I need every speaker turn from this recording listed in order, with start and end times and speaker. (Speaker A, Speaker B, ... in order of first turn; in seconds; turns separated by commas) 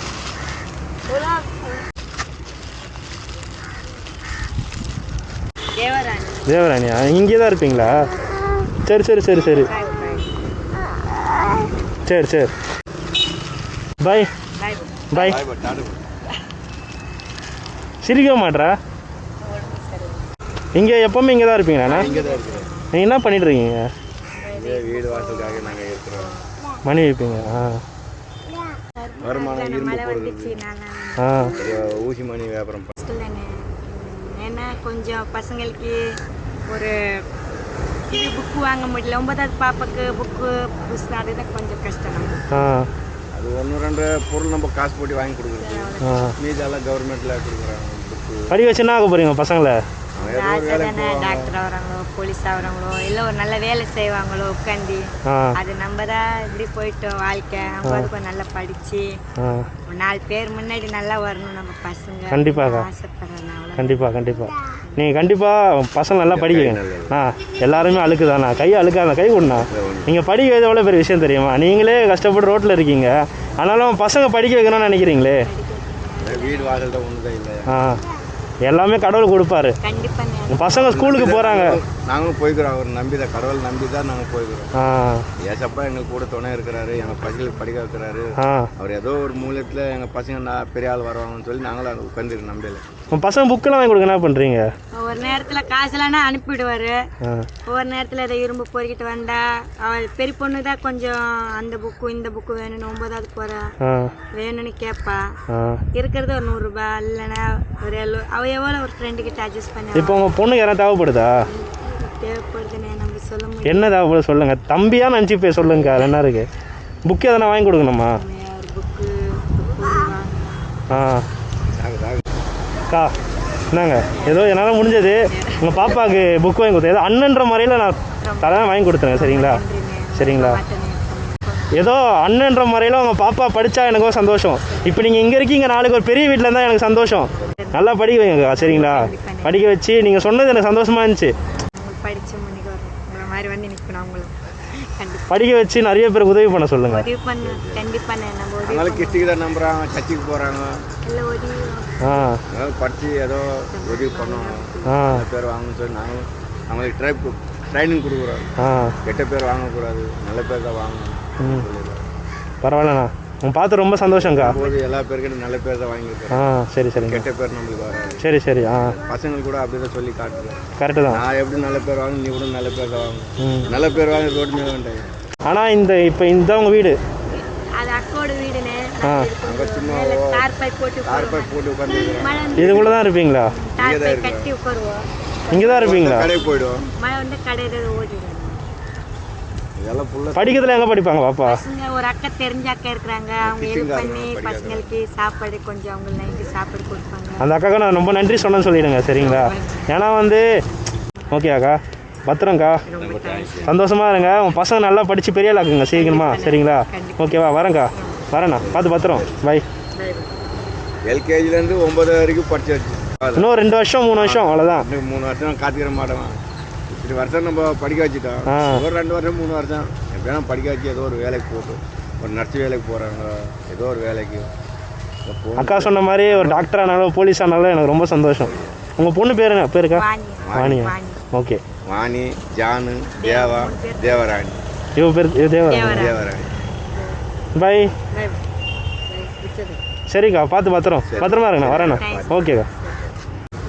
Speaker A: 1.1-1.6, Speaker A: 5.8-6.4, Speaker B: 6.5-8.1, Speaker B: 8.8-9.7, Speaker A: 9.6-10.4, Speaker B: 12.1-12.5, Speaker B: 14.0-14.3, Speaker A: 14.6-15.4, Speaker B: 15.1-15.4, Speaker C: 15.2-16.0, Speaker B: 18.0-18.8, Speaker A: 19.4-20.3, Speaker B: 20.8-22.1, Speaker A: 21.8-22.9, Speaker C: 21.9-22.7, Speaker B: 22.9-23.9, Speaker A: 24.4-26.5, Speaker C: 24.5-26.3, Speaker B: 26.9-27.8, Speaker A: 28.9-31.7, Speaker C: 29.2-30.6, Speaker B: 31.2-31.5, Speaker C: 31.6-32.9, Speaker A: 33.0-36.0, Speaker A: 38.1-42.5, Speaker B: 42.5-42.9, Speaker C: 43.3-48.6, Speaker A: 45.6-46.3, Speaker B: 46.0-46.3, Speaker B: 48.5-49.8, Speaker C: 50.2-51.5, Speaker A: 50.2-59.1, Speaker B: 55.3-55.5, Speaker B: 59.4-59.7, Speaker A: 59.9-64.1, Speaker B: 62.3-62.9, Speaker B: 63.8-75.5, Speaker C: 66.3-67.2, Speaker C: 69.7-70.1, Speaker A: 75.4-76.9, Speaker C: 76.2-77.9, Speaker B: 77.7-78.0, Speaker B: 78.7-79.8, Speaker A: 79.8-80.8, Speaker B: 80.5-81.8, Speaker C: 80.8-84.7, Speaker B: 84.8-85.2, Speaker C: 85.4-92.9, Speaker A: 86.9-87.7, Speaker B: 88.4-88.7, Speaker B: 93.1-94.7, Speaker A: 95.0-97.0, Speaker A: 97.7-103.6, Speaker B: 103.8-104.1, Speaker A: 104.3-105.2, Speaker B: 105.5-105.8, Speaker A: 106.0-110.3, Speaker B: 110.0-111.3, Speaker A: 111.5-114.0, Speaker B: 113.7-116.5, Speaker B: 117.0-118.2, Speaker A: 118.1-120.6, Speaker B: 120.9-121.2, Speaker C: 121.8-122.2, Speaker B: 123.7-129.6, Speaker A: 124.1-125.9, Speaker A: 128.2-131.7, Speaker B: 130.2-130.6, Speaker B: 131.7-141.3, Speaker A: 134.6-135.1, Speaker A: 137.3-137.9, Speaker A: 138.5-139.7, Speaker A: 141.7-145.4, Speaker B: 145.3-147.1, Speaker A: 146.8-149.3, Speaker C: 147.4-147.9, Speaker C: 148.7-150.8, Speaker A: 151.0-152.3, Speaker B: 152.0-152.4, Speaker C: 152.5-162.0, Speaker A: 153.7-155.1, Speaker B: 154.9-155.2, Speaker B: 158.6-158.9, Speaker B: 161.4-161.7, Speaker B: 162.6-164.6, Speaker C: 164.1-168.3, Speaker A: 164.4-165.1, Speaker B: 166.3-167.2, Speaker B: 168.2-169.0, Speaker C: 168.9-175.1, Speaker B: 170.8-171.2, Speaker B: 173.4-173.7, Speaker A: 173.6-174.4, Speaker B: 175.5-177.0, Speaker A: 177.8-182.9, Speaker B: 179.0-179.3, Speaker C: 179.4-180.4, Speaker C: 181.1-183.0, Speaker B: 182.6-183.5, Speaker A: 183.5-188.6, Speaker C: 183.8-184.5, Speaker B: 185.5-186.3, Speaker C: 185.5-186.8, Speaker C: 189.8-190.8, Speaker B: 190.3-191.6, Speaker A: 191.4-197.5, Speaker C: 193.4-194.9, Speaker B: 197.4-200.5, Speaker A: 199.1-200.0, Speaker B: 201.3-202.8, Speaker A: 202.8-203.8, Speaker C: 203.0-203.8, Speaker B: 203.7-209.7, Speaker A: 205.9-208.3, Speaker C: 208.6-209.5, Speaker A: 209.9-210.4, Speaker C: 211.1-213.5, Speaker B: 213.4-214.9, Speaker C: 214.2-216.4, Speaker C: 216.9-224.5, Speaker B: 218.5-218.8, Speaker C: 225.3-226.7, Speaker B: 225.6-230.0, Speaker C: 228.4-228.8, Speaker A: 229.9-231.2, Speaker C: 230.4-230.8, Speaker B: 230.6-231.6, Speaker C: 231.9-234.6, Speaker A: 233.2-234.4, Speaker B: 235.0-236.1, Speaker A: 235.6-237.2, Speaker C: 235.8-236.5, Speaker B: 237.5-237.9, Speaker A: 238.1-238.4, Speaker A: 239.1-239.8, Speaker B: 240.1-242.7, Speaker C: 241.1-242.5, Speaker A: 241.7-243.1